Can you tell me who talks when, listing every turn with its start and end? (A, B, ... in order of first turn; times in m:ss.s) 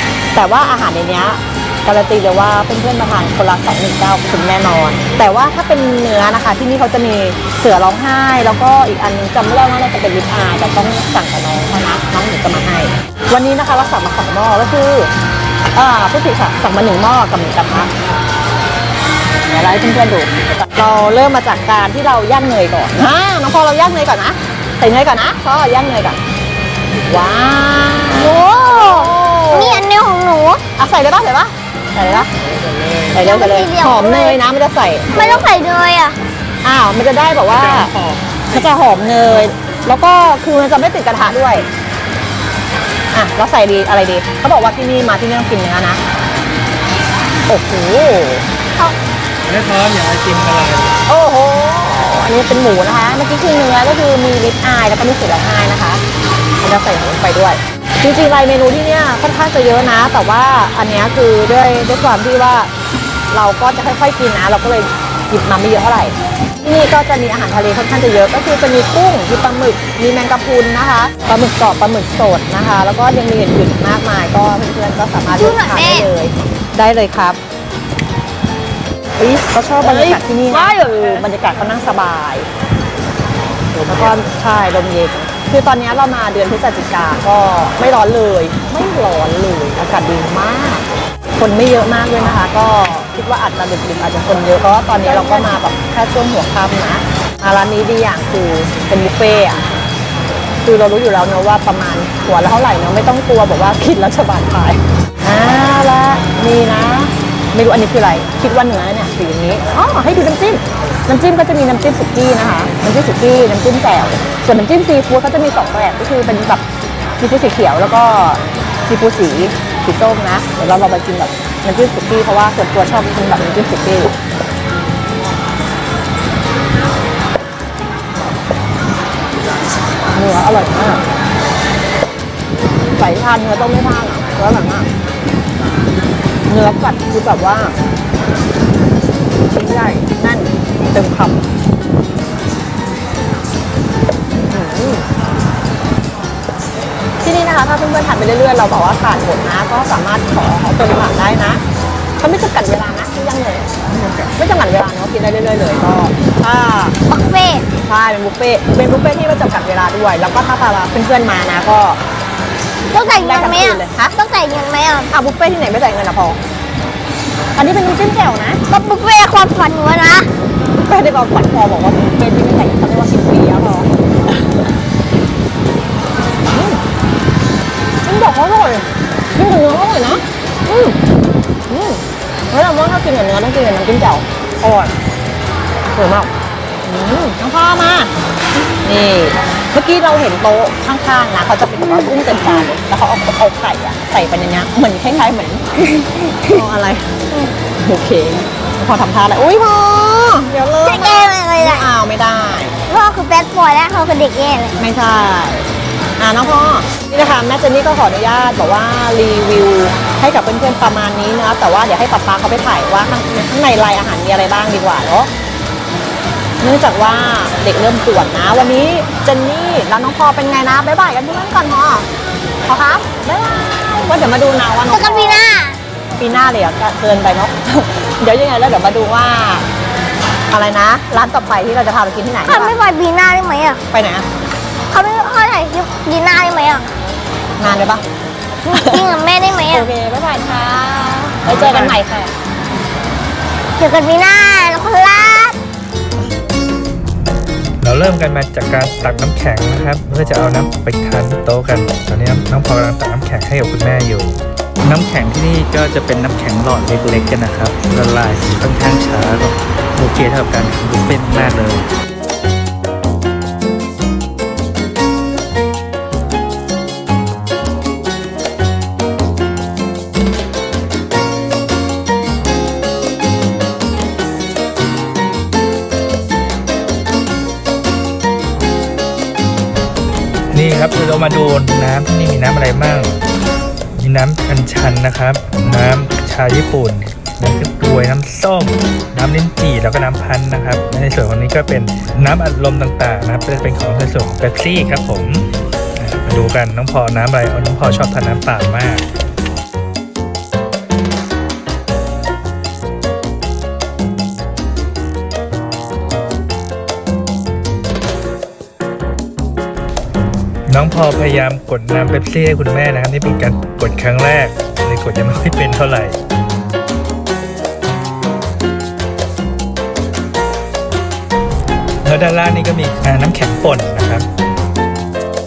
0:00.3-0:15.1 A
0:15.7-0:17.9 A
0:19.5-0:26.2 A
0:27.0-0:29.8 A
0:28.1-0:30.6 B
0:30.8-0:32.3 A
0:33.1-0:34.4 B
0:33.1-0:35.4 A
0:35.1-0:36.2 B
0:36.6-0:37.9 A
0:37.6-0:38.2 C
0:38.5-0:41.7 A
0:43.1-0:46.0 A
0:47.5-0:48.5 A
0:49.4-0:50.9 C
0:51.1-0:56.0 A
0:56.6-1:02.7 A
1:03.3-1:17.4 A
1:15.3-1:16.1 B
1:19.2-1:22.5 A
1:19.8-1:21.2 B
1:23.8-1:30.8 A
1:31.4-1:39.6 A
1:35.0-1:35.6 B
1:40.6-1:56.6 A
1:57.2-2:04.2 A
2:10.1-2:11.0 A
2:12.9-2:14.9 A
2:16.5-2:17.7 A
2:19.5-2:21.4 A
2:24.5-2:25.1 A
2:27.2-2:31.6 A
2:32.2-2:37.0 A
2:37.1-2:37.6 B
2:37.8-2:42.0 A
2:42.9-2:45.1 B
2:42.9-2:44.1 A
2:45.1-2:46.4 A
2:47.6-2:48.6 A
2:48.7-2:50.3 B
2:50.7-2:53.9 A
2:56.5-2:56.8 A
2:58.0-3:01.0 A
3:01.7-3:04.9 A
3:05.9-3:06.3 A
3:06.8-3:08.1 A
3:08.8-3:15.8 A
3:16.4-3:22.7 A
3:20.8-3:21.8 B
3:22.9-3:24.8 B
3:24.8-3:25.7 A
3:26.2-3:35.3 A
3:36.6-3:42.1 A
3:42.6-3:45.4 A
3:44.9-3:45.8 B
3:46.2-3:49.6 A
3:50.5-3:52.7 A
3:52.5-3:53.8 B
3:53.9-3:54.2 A
3:54.9-3:56.9 B
3:57.6-3:58.0 A
3:58.6-3:59.1 A
3:58.7-3:59.9 B
3:59.7-4:02.3 A
4:01.4-4:02.0 C
4:03.8-4:05.6 B
4:07.8-4:21.9 C
4:40.5-4:43.2 C
4:44.0-4:55.4 C
4:56.0-4:59.0 C
5:10.7-5:16.2 C
5:22.0-5:24.2 C